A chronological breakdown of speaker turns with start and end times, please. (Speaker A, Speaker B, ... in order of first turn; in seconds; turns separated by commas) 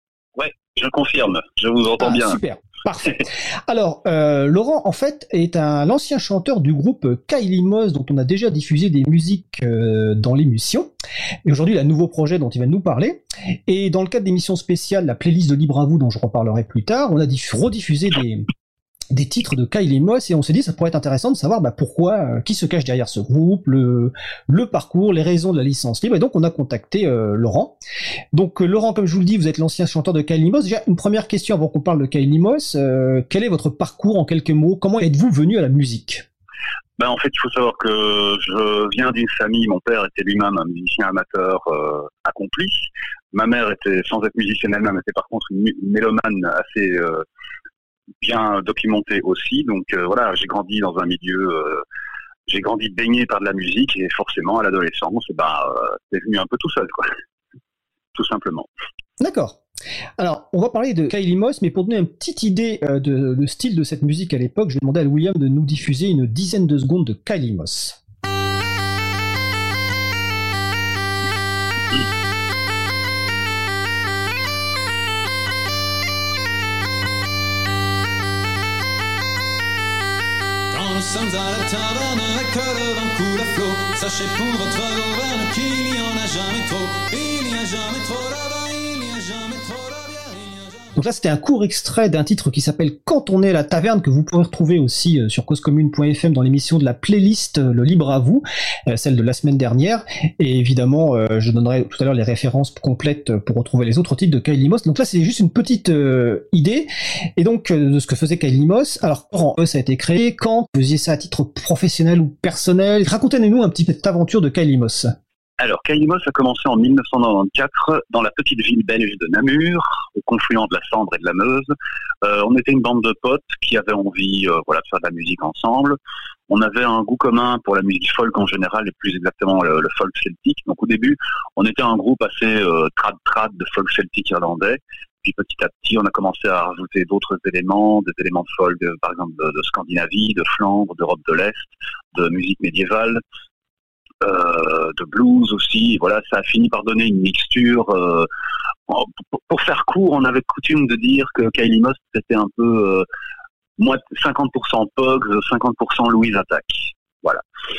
Speaker A: 0.3-2.4, Speaker B: 2.0-10.9, Speaker B: 11.4-18.4, Speaker B: 19.1-27.8, Speaker B: 28.3-36.2, Speaker A: 37.0-47.2, Speaker A: 48.2-51.8, Speaker A: 52.5-57.1, Speaker A: 58.1-58.7, Speaker B: 59.2-59.6, Speaker B: 60.2-68.0, Speaker C: 80.7-90.9, Speaker B: 90.9-115.1, Speaker A: 115.6-121.7, Speaker A: 122.2-126.0, Speaker A: 126.5-143.2, Speaker A: 144.2-148.3, Speaker A: 148.9-153.1, Speaker A: 153.8-157.4